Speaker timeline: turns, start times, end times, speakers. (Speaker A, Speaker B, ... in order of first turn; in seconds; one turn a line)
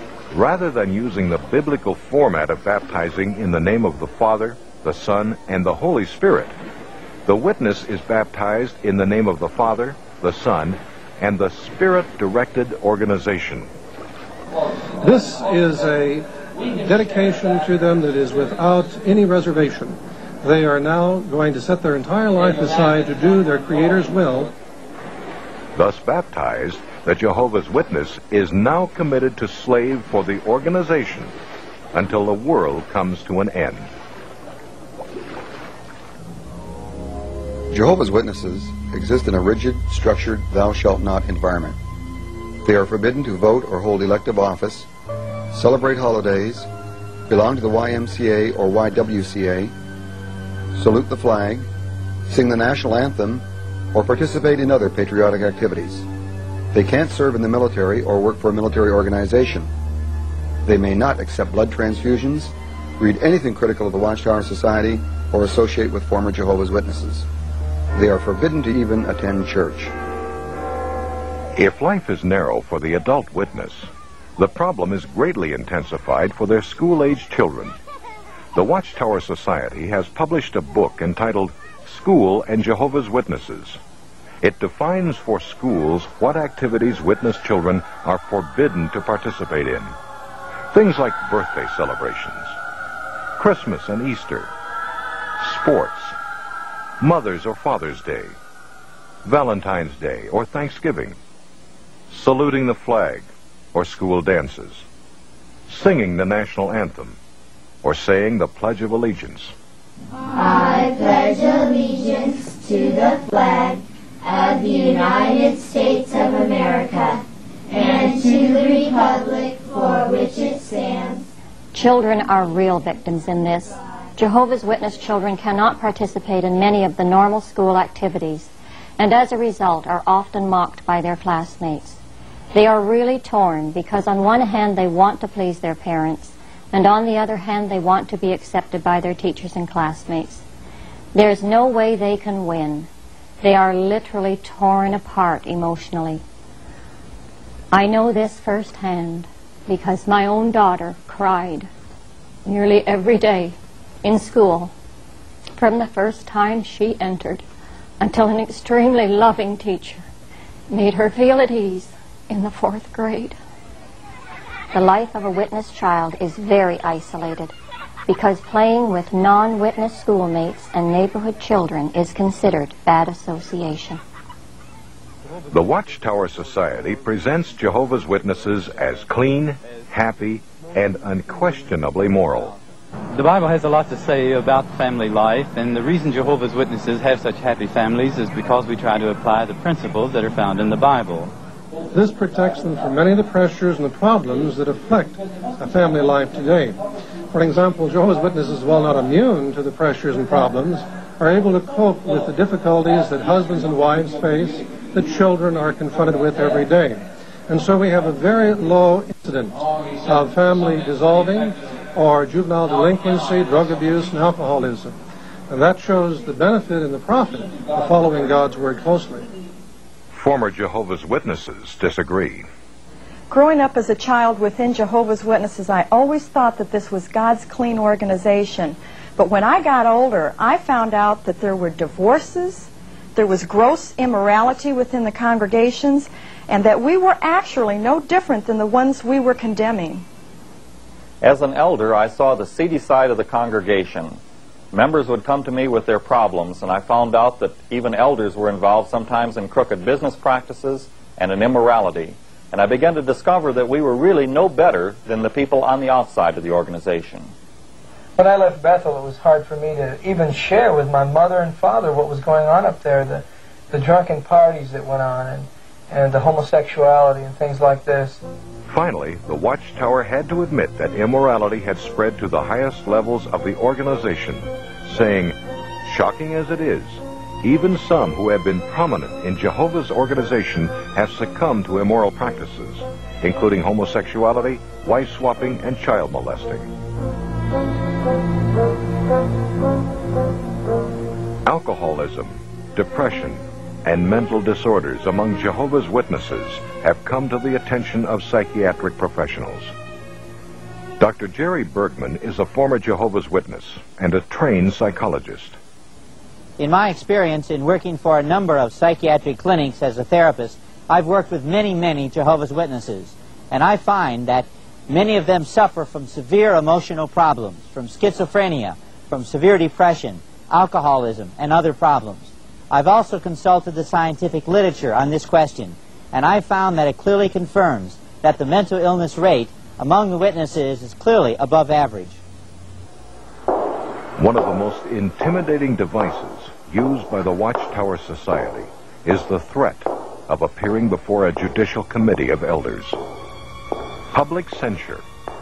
Speaker A: 0.3-6.5
Speaker A: 7.3-13.7
Speaker B: 15.0-24.5
Speaker A: 25.8-31.3
Speaker A: 31.9-33.9
Speaker C: 37.7-41.8
Speaker C: 42.6-44.9
Speaker C: 45.5-46.7
Speaker C: 47.3-49.7
Speaker C: 50.8-51.6
Speaker C: 52.3-56.0
Speaker C: 56.7-59.7
Speaker C: 60.6-67.3
Speaker C: 68.0-69.9
Speaker A: 71.5-77.8
Speaker A: 78.5-83.8
Speaker A: 84.4-90.0
Speaker A: 90.7-92.6
Speaker A: 93.4-94.5
Speaker A: 95.4-96.2
Speaker A: 97.0-98.4
Speaker A: 99.2-101.2
Speaker A: 102.1-104.8
Speaker A: 105.7-107.2
Speaker A: 107.8-109.5
Speaker D: 110.3-121.2
Speaker E: 121.7-132.0
Speaker E: 132.5-140.4
Speaker E: 141.1-142.9
Speaker E: 143.4-146.2
Speaker E: 147.7-151.7
Speaker E: 152.5-154.7
Speaker E: 155.6-157.4
Speaker E: 158.0-160.0
Speaker E: 160.7-163.4
Speaker E: 164.7-167.5
Speaker E: 168.1-174.0
Speaker A: 175.5-182.6
Speaker F: 183.1-191.3
Speaker B: 191.9-215.0
Speaker B: 215.5-219.3
Speaker A: 220.1-222.5
Speaker G: 223.3-240.1
Speaker H: 241.2-244.2
Speaker H: 244.7-257.3
Speaker I: 258.2-268.2
Speaker A: 268.7-286.7
Speaker A: 291.5-299.7
Speaker A: 301.0-305.6
Speaker J: 306.6-332.2
Speaker A: 334.2-343.0
Speaker A: 344.1-345.0